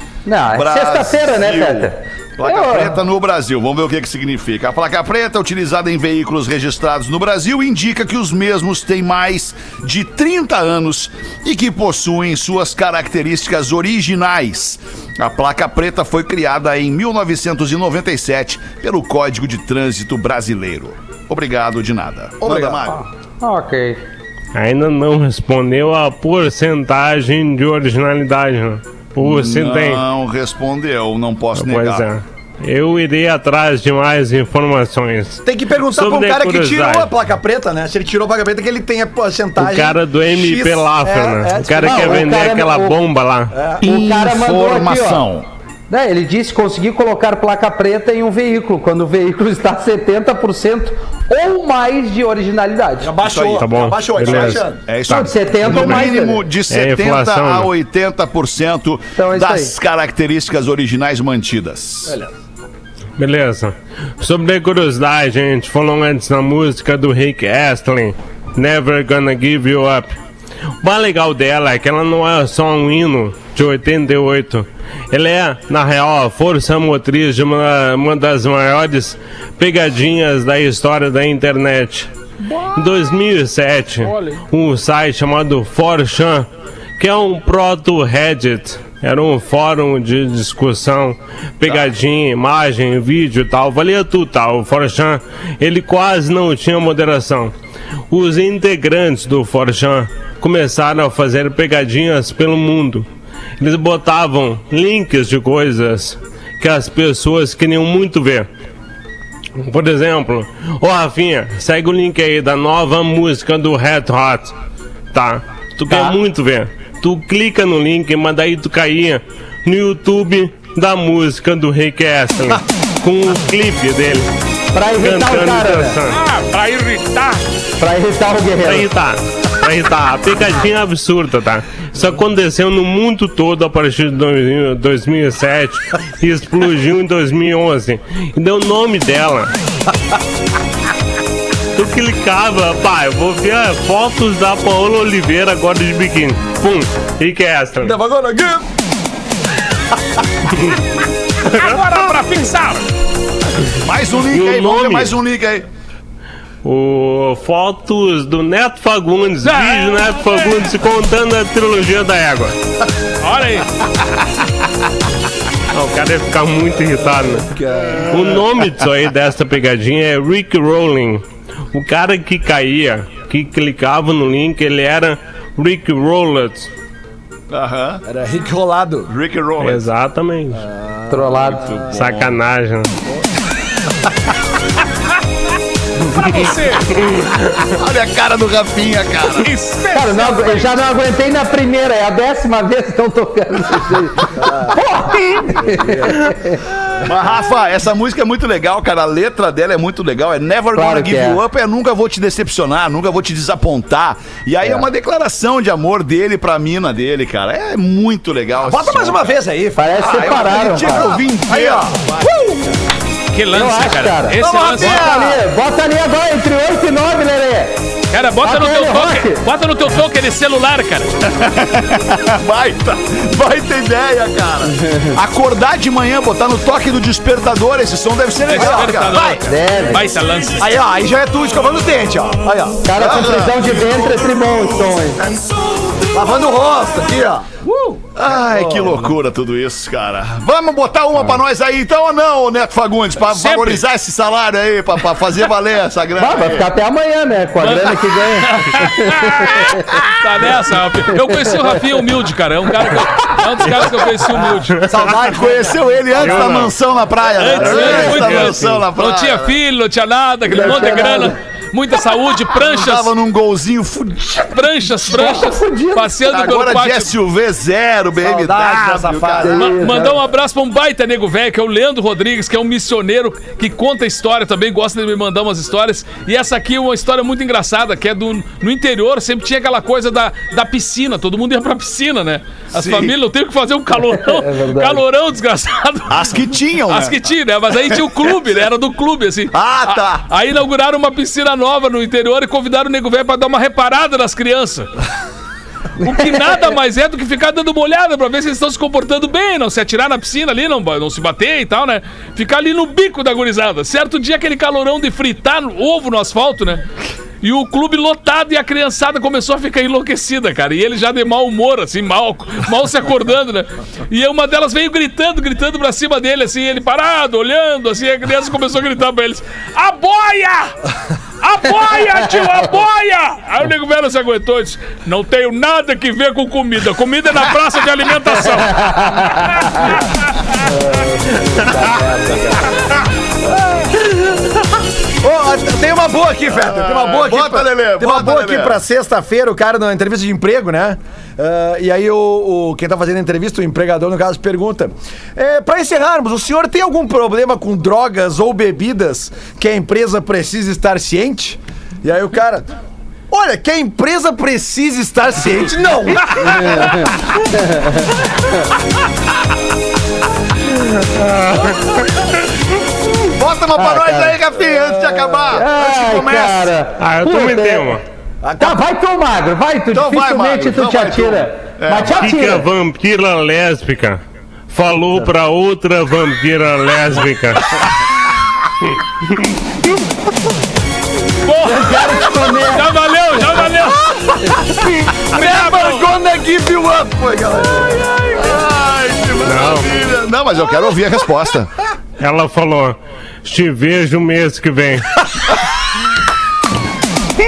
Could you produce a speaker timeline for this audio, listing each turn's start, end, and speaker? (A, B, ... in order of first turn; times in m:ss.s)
0:00.3-0:03.0 A
0:00.5-0:23.0 B
0:22.4-0:22.8 C
0:22.9-0:24.0 A
0:24.6-0:30.0 D
0:29.2-0:32.1 B
0:31.6-0:37.1 D
0:35.4-0:42.3 C
0:39.6-0:43.5 D
0:41.8-0:43.0 A
0:43.5-0:43.8 C
0:43.8-0:45.5 B
0:43.8-0:45.2 A
0:45.9-0:53.1 A
0:53.0-0:54.8 C
0:53.2-1:02.2 B
0:53.5-0:54.7 D
0:55.1-0:56.4 A
0:56.7-0:57.7 D
0:59.2-0:59.7 A
1:03.2-1:10.2 D
1:10.8-1:22.1 D
1:22.7-1:26.5 D
1:24.1-1:24.4 E
1:27.0-1:37.5 D
1:38.1-1:43.1 D
1:43.6-1:48.5 D
1:49.6-1:54.5 D
1:55.1-2:04.3 D
1:55.9-1:56.2 A
2:04.7-2:06.0 A
2:05.0-2:06.2 D
2:06.1-2:07.4 E
2:07.8-2:08.9 A
2:08.6-2:19.5 D
2:21.8-2:28.0 D
2:27.8-2:28.6 C
2:31.4-2:32.9 E
2:33.7-2:35.7 B
2:34.3-2:35.1 D
2:36.6-2:42.6 D
2:39.4-2:40.5 E
2:43.2-2:43.7 E
2:45.7-2:47.5 D
2:47.2-2:48.5 C
2:48.1-2:56.7 D
2:57.5-2:58.0 B
2:58.1-2:59.1 C
2:59.1-2:59.9 B
2:59.6-3:00.6 D
3:00.5-3:01.9 C
3:01.1-3:01.6 A
3:01.5-3:02.4 B
3:01.8-3:02.9 D
3:06.2-3:07.0 E
3:07.6-3:09.5 B
3:09.4-3:10.8 E
3:09.9-3:16.6 A
3:14.4-3:14.8 C
3:15.5-3:16.4 C
3:17.0-3:29.4 B
3:20.8-3:21.4 A
3:28.6-3:32.8 C
3:29.8-3:31.0 A
3:30.0-3:32.4 B
3:33.3-3:35.1 E
3:33.5-3:37.8 A
3:34.4-3:35.4 C
3:38.1-3:41.2 E
3:38.4-3:39.4 A
3:41.2-3:49.3 B
3:44.7-3:45.2 A
3:48.5-3:50.8 E
3:48.5-3:49.5 C
3:49.5-3:50.1 A
3:50.6-3:52.9 C
3:52.8-3:55.2 A
3:52.9-3:56.4 B
3:56.1-3:59.1 C
3:58.2-4:06.7 B
4:03.2-4:03.8 E
4:06.2-4:09.9 A
4:07.6-4:14.9 E
4:11.3-4:11.6 A
4:14.8-4:16.6 C
4:15.2-4:19.6 B
4:16.2-4:16.7 D
4:17.4-4:23.1 E
4:17.7-4:18.8 D
4:20.5-4:21.4 A
4:22.5-4:24.6 B
4:24.5-4:27.1 E
4:25.1-4:26.2 A
4:26.2-4:29.7 B
4:28.2-4:29.6 C
4:29.4-4:30.2 A
4:29.6-4:46.3 E
4:42.7-4:43.1 B
4:44.2-4:45.0 A
4:46.1-4:47.2 B
4:46.9-4:54.9 E
4:49.5-4:50.2 B
4:56.0-5:06.8 E
5:07.4-5:20.8 E
5:21.4-5:30.4 E
5:29.0-5:29.9 A
5:30.6-5:32.6 A
5:33.5-5:34.5 C
5:35.2-5:52.7 C
5:36.5-5:38.8 B
5:53.3-5:57.3 C
5:56.4-5:58.1 A
6:01.2-6:01.7 D
6:03.2-6:06.7 B
6:03.8-6:04.4 A
6:04.7-6:05.5 C
6:05.5-6:08.0 A
6:07.0-6:08.0 D
6:08.4-6:08.8 C
6:08.6-6:12.7 A
6:09.9-6:12.4 B
6:12.2-6:17.6 D
6:21.4-6:24.2 E
6:21.6-6:22.9 A
6:23.9-6:24.6 C
6:25.3-6:28.5 C
6:25.3-6:26.1 E
6:28.3-6:31.7 B
6:29.4-6:29.9 D
6:32.2-6:35.1 D